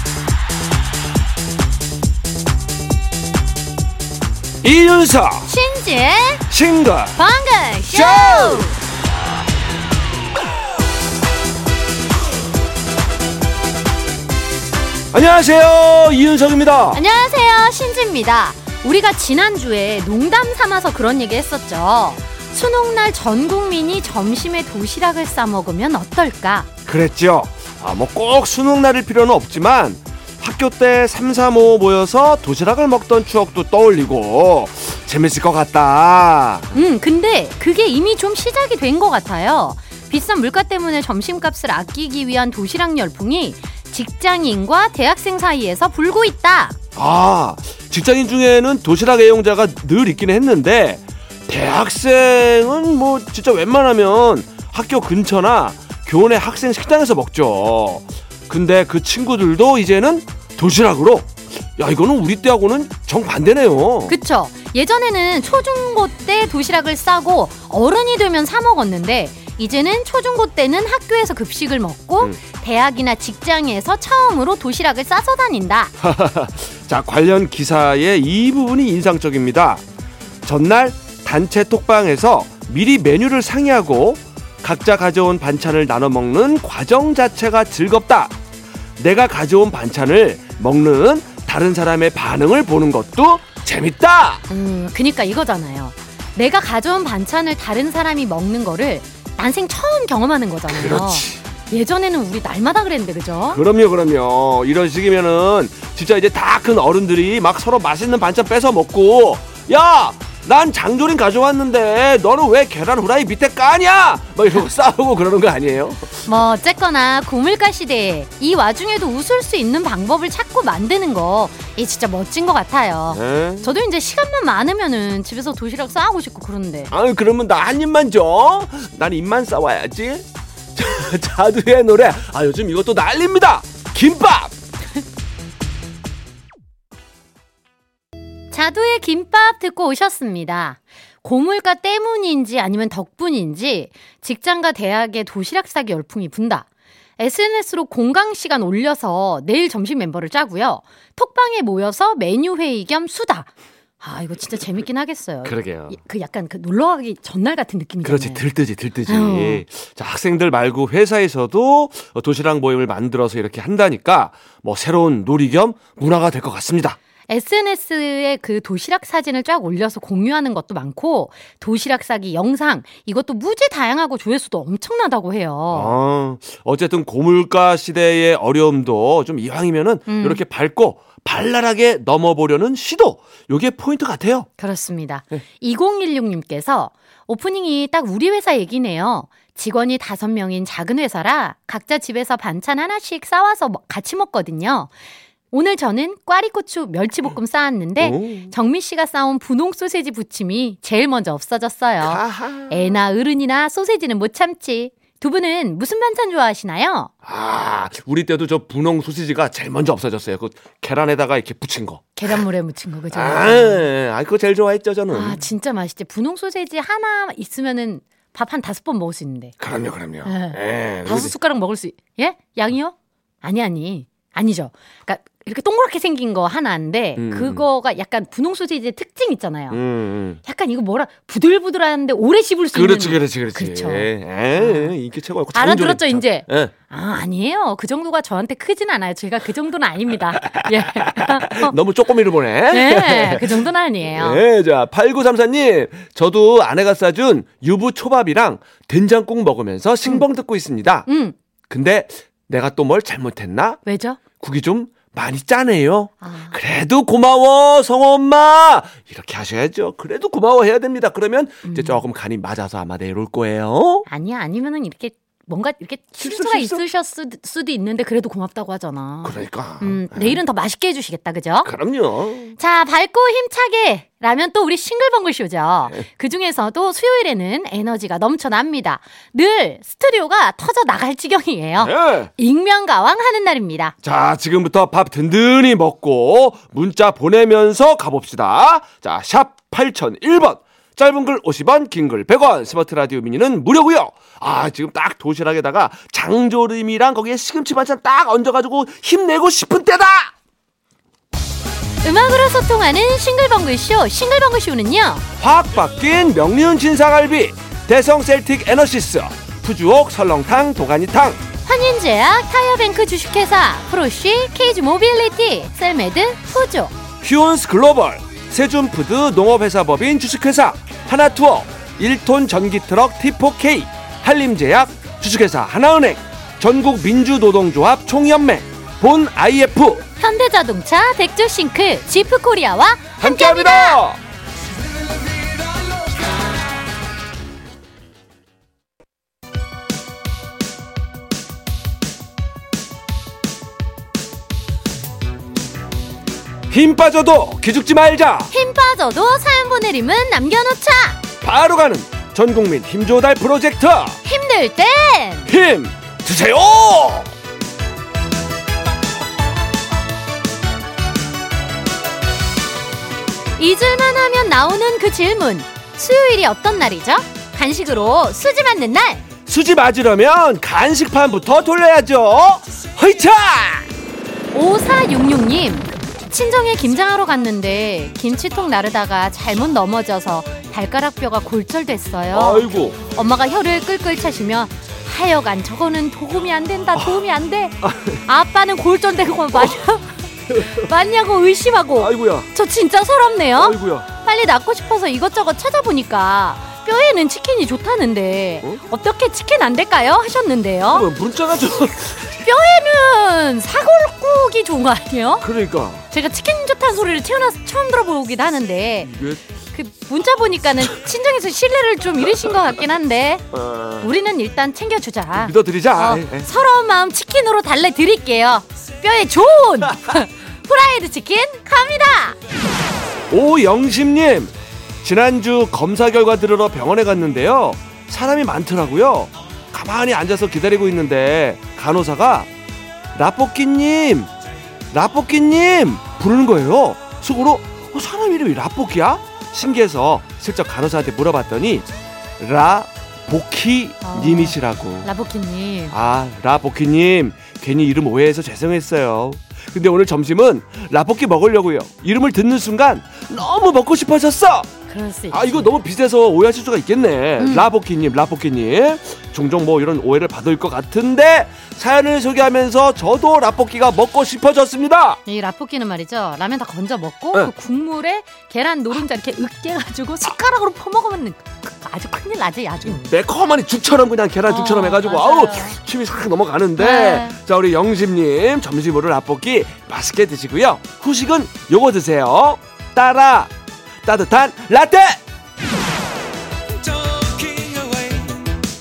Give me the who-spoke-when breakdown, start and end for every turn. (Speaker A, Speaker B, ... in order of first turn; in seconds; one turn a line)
Speaker A: 4.6-5.5
Speaker B: 5.5-6.5
Speaker A: 6.5-7.2
Speaker B: 7.2-8.7
Speaker A: 7.9-8.7
Speaker A: 15.1-17.0
Speaker B: 16.9-26.7
Speaker A: 26.9-36.8
Speaker B: 36.7-46.8
Speaker A: 47.0-64.2
Speaker B: 64.1-75.9
Speaker A: 76.0-79.8
Speaker A: 80.4-88.3
Speaker A: 89.0-94.4
Speaker B: 94.5-103.6
Speaker A: 100.7-101.4
Speaker A: 103.5-116.1
Speaker B: 116.2-126.9
Speaker A: 123.1-123.7
Speaker A: 126.9-134.5
Speaker B: 138.5-146.7
Speaker B: 147.2-153.5
Speaker B: 154.0-158.4
Speaker A: 155.4-155.9
Speaker A: 158.0-167.0
Speaker B: 159.1-159.6
Speaker B: 167.3-175.9
Speaker A: 175.7-184.5
Speaker B: 180.1-180.4
Speaker B: 184.6-194.9
Speaker B: 195.5-207.1
Speaker A: 198.0-198.5
Speaker A: 202.0-203.0
Speaker A: 207.2-212.4
Speaker B: 212.2-213.9
Speaker A: 213.1-215.4
Speaker B: 215.1-219.5
Speaker A: 219.6-221.3
Speaker B: 220.2-229.8
Speaker A: 227.2-227.6
Speaker A: 229.7-230.4
Speaker B: 230.4-234.9
Speaker A: 232.7-236.7
Speaker B: 235.5-241.7
Speaker A: 240.4-243.6
Speaker B: 242.7-244.4
Speaker A: 244.1-251.1
Speaker B: 251.1-251.3
Speaker A: 251.7-253.8
Speaker B: 253.8-254.2
Speaker A: 254.4-264.1
Speaker B: 256.2-256.6
Speaker B: 261.6-262.0
Speaker B: 264.1-271.7
Speaker A: 266.2-266.8
Speaker A: 269.2-270.4
Speaker A: 271.6-272.6
Speaker B: 272.6-283.9
Speaker A: 281.8-282.3
Speaker A: 284.0-300.3
Speaker B: 302.0-305.2
Speaker A: 305.4-311.4
Speaker B: 311.6-316.9
Speaker A: 317.2-330.0
Speaker B: 330.2-334.0
Speaker A: 333.2-334.2
Speaker A: 346.7-348.5
Speaker B: 348.5-351.2
Speaker A: 351.4-354.2
Speaker B: 354.2-355.5
Speaker A: 355.5-357.3
Speaker B: 363.6-369.2
Speaker A: 369.4-373.9
Speaker B: 374.5-401.1
Speaker A: 382.3-383.0
Speaker A: 386.9-387.2
Speaker A: 387.8-388.2
Speaker A: 392.0-392.5
Speaker A: 393.6-394.1
Speaker A: 400.9-402.3
Speaker B: 402.2-405.4
Speaker A: 405.4-406.1
Speaker B: 406.1-409.1
Speaker A: 409.0-409.4
Speaker B: 409.7-413.5
Speaker A: 413.5-414.1
Speaker B: 414.0-422.4
Speaker A: 415.3-416.5
Speaker A: 423.3-424.5
Speaker A: 425.0-432.5
Speaker A: 433.1-434.3
Speaker A: 434.9-441.8
Speaker A: 442.4-445.1
Speaker B: 444.0-445.9
Speaker A: 445.9-454.7
Speaker B: 454.9-455.7
Speaker A: 455.3-465.2
Speaker B: 457.4-457.7
Speaker B: 465.2-473.1
Speaker A: 472.8-483.5
Speaker B: 474.4-475.8
Speaker B: 476.8-477.4
Speaker A: 484.0-485.2